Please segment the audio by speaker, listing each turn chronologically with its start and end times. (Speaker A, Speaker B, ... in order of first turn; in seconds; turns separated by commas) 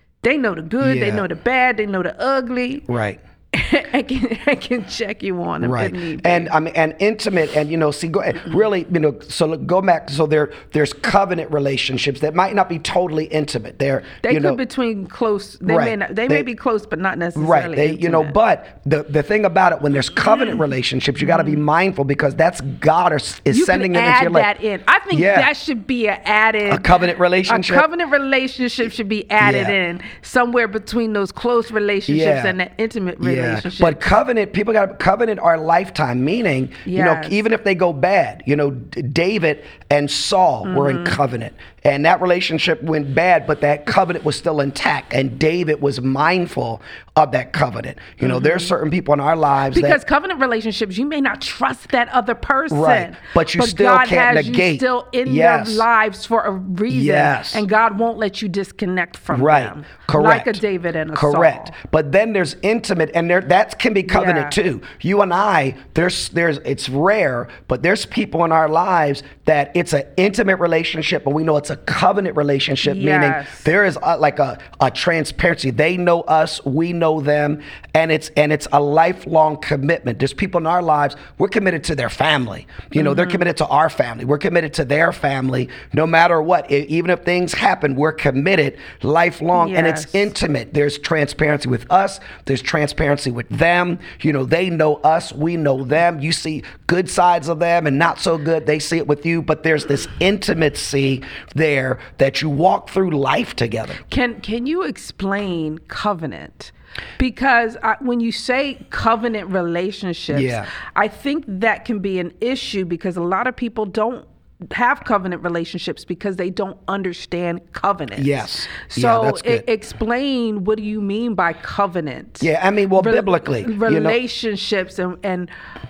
Speaker A: 0.2-2.9, Speaker B: 0.8-1.2, Speaker B: 2.9-3.2, Speaker A: 3.5-6.5, Speaker B: 5.6-14.6, Speaker A: 14.2-18.3, Speaker B: 15.7-16.5, Speaker B: 17.4-24.5, Speaker A: 21.2-21.6, Speaker A: 23.5-34.0, Speaker B: 25.1-25.5, Speaker B: 26.7-27.9, Speaker B: 29.4-29.8, Speaker B: 32.1-32.5, Speaker B: 33.2-50.0, Speaker A: 36.9-37.4, Speaker A: 40.6-41.2, Speaker A: 48.2-48.7, Speaker A: 49.7-61.7, Speaker B: 52.7-55.8, Speaker B: 56.9-57.6, Speaker B: 59.3-60.6, Speaker B: 61.1-104.0, Speaker A: 64.1-64.6, Speaker A: 72.8-73.7, Speaker A: 83.0-83.4, Speaker A: 89.5-90.3, Speaker A: 104.1-125.5, Speaker B: 110.3-110.7, Speaker B: 118.2-119.7, Speaker B: 122.4-124.2